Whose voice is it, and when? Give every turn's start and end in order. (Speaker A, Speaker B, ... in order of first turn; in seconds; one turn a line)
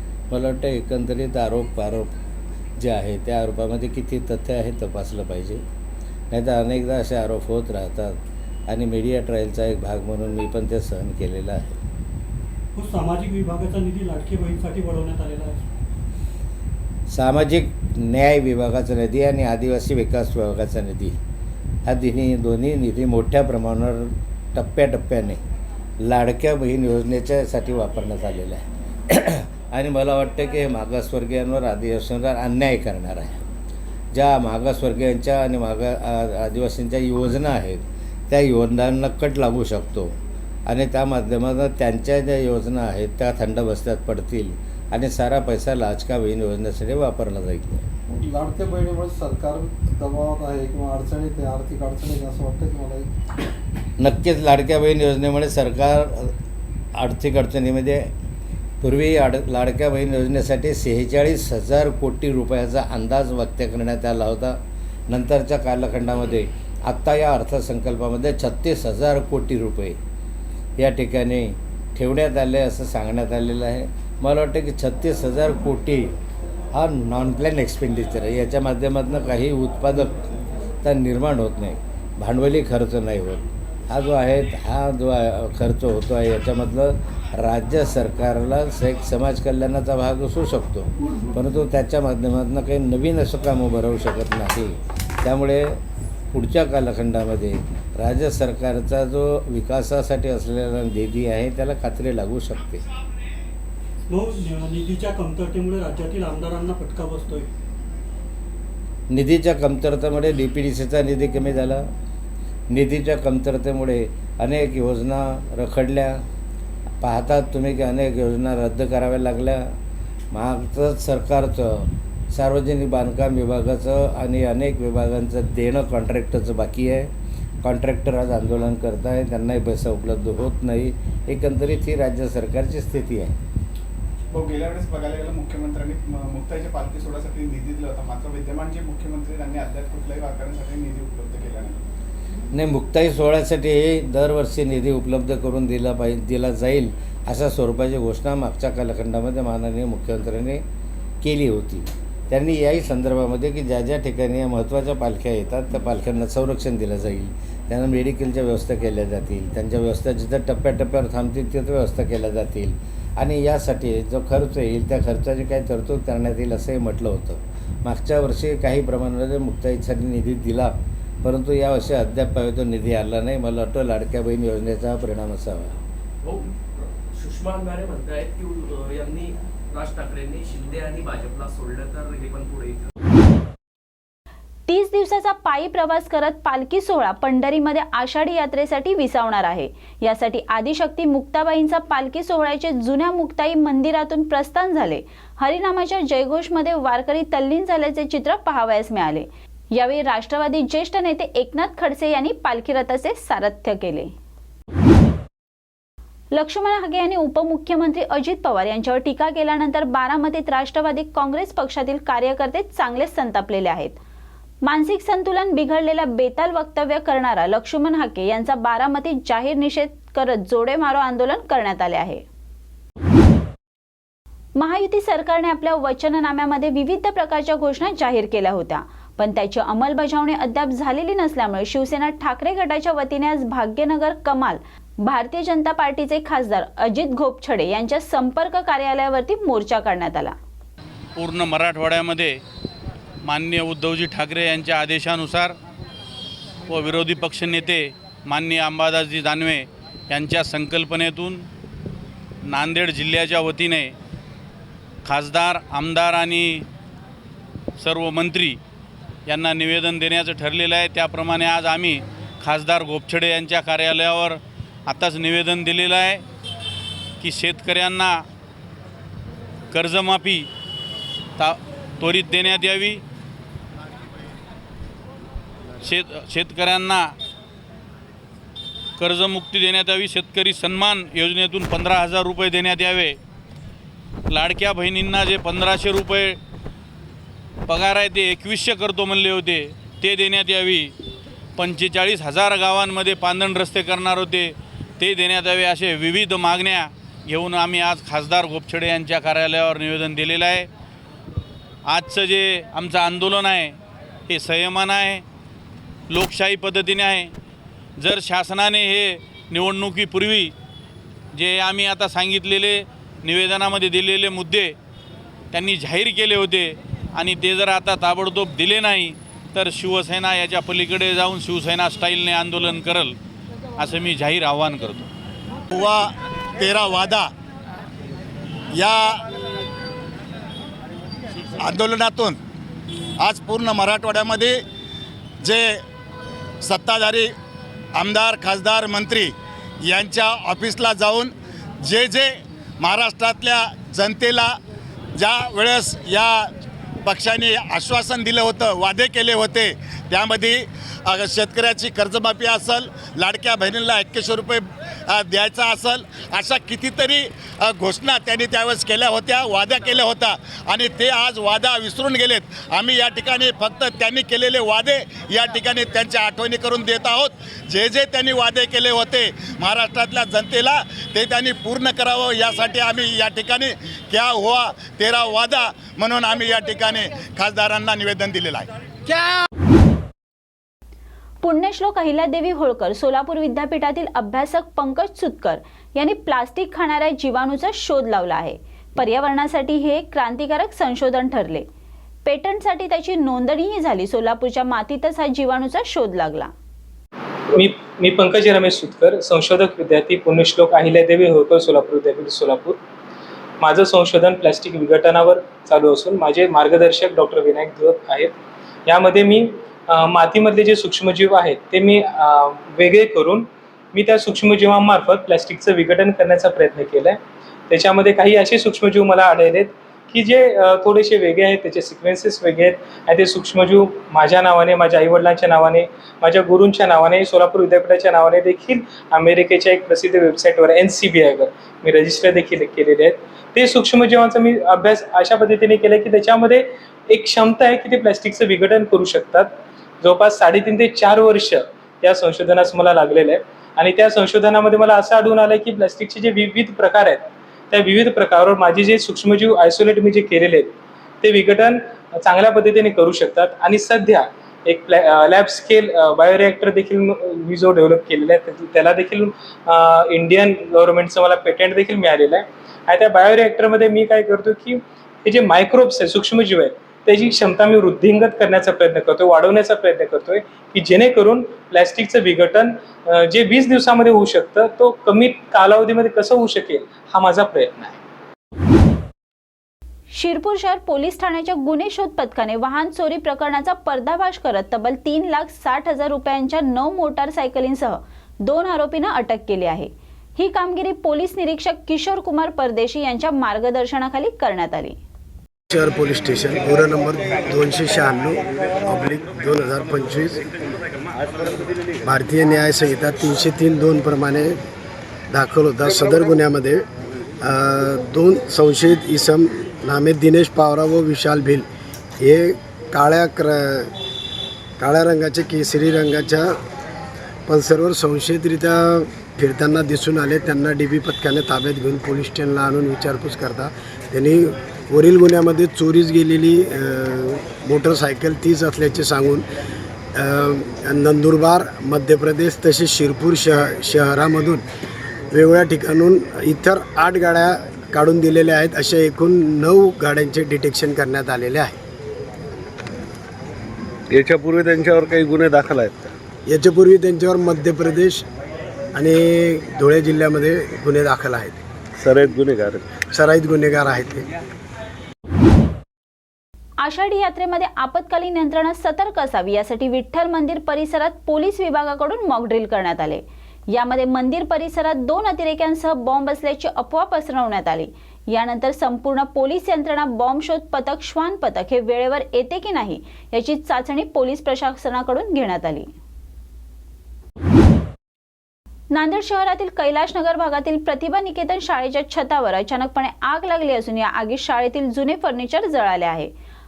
Speaker A: 0.3-2.1
Speaker A: 2.8-5.6
Speaker A: 6.3-8.2
Speaker A: 8.7-11.8
Speaker B: 12.8-15.6
Speaker A: 17.1-21.2
Speaker A: 21.9-25.4
Speaker A: 26.0-33.5
Speaker A: 34.1-40.2
Speaker A: 40.7-47.9
Speaker C: 48.1-53.1
Speaker A: 54.0-56.3
Speaker A: 57.0-58.1
Speaker A: 58.8-70.0
Speaker A: 70.8-76.1
Speaker A: 76.7-80.3
Speaker A: 80.8-95.8
Speaker A: 96.3-102.8
Speaker B: 104.1-107.5
Speaker A: 109.1-111.9
Speaker A: 112.7-116.2
Speaker A: 117.0-119.7
Speaker A: 120.3-127.1
Speaker A: 127.6-133.4
Speaker D: 134.3-141.8
Speaker A: 142.5-150.6
Speaker A: 151.2-175.8
Speaker E: 176.2-182.9
Speaker F: 184.7-204.1
Speaker F: 206.3-214.0
Speaker F: 214.6-222.2
Speaker F: 224.6-240.4
Speaker G: 241.2-242.4
Speaker G: 243.2-245.6
Speaker G: 246.7-251.4
Speaker G: 252.5-253.9
Speaker G: 255.1-256.7
Speaker G: 257.8-258.6
Speaker G: 259.3-266.2
Speaker G: 267.2-268.2
Speaker G: 269.7-270.5
Speaker G: 271.4-273.0
Speaker G: 275.8-277.1
Speaker G: 279.0-283.2
Speaker G: 284.3-286.4
Speaker G: 287.7-290.9
Speaker G: 291.6-300.7
Speaker G: 301.9-303.8
Speaker G: 304.3-305.2
Speaker G: 306.1-307.3
Speaker G: 308.0-310.5
Speaker G: 311.3-314.8
Speaker G: 315.5-323.1
Speaker G: 323.8-325.1
Speaker H: 325.7-327.3
Speaker H: 328.7-329.2
Speaker H: 331.6-332.4
Speaker H: 333.2-334.6
Speaker H: 335.4-335.8
Speaker H: 336.6-337.3
Speaker H: 337.9-344.6
Speaker H: 345.2-346.5
Speaker H: 347.0-379.2
Speaker F: 381.4-391.7
Speaker F: 392.2-396.5
Speaker I: 397.5-402.8
Speaker I: 403.6-408.4
Speaker I: 408.9-417.2
Speaker I: 417.7-477.9
Speaker F: 480.1-495.0
Speaker J: 495.7-500.4
Speaker J: 502.0-504.6
Speaker J: 505.3-506.9
Speaker J: 507.4-511.7
Speaker J: 512.2-513.9
Speaker J: 514.8-516.6
Speaker J: 517.5-529.5
Speaker J: 530.2-534.6
Speaker J: 535.3-541.8
Speaker K: 544.1-546.1
Speaker J: 546.5-548.2
Speaker J: 549.0-551.6
Speaker K: 552.0-552.9
Speaker J: 553.1-554.3
Speaker F: 556.8-575.9
Speaker F: 578.9-586.3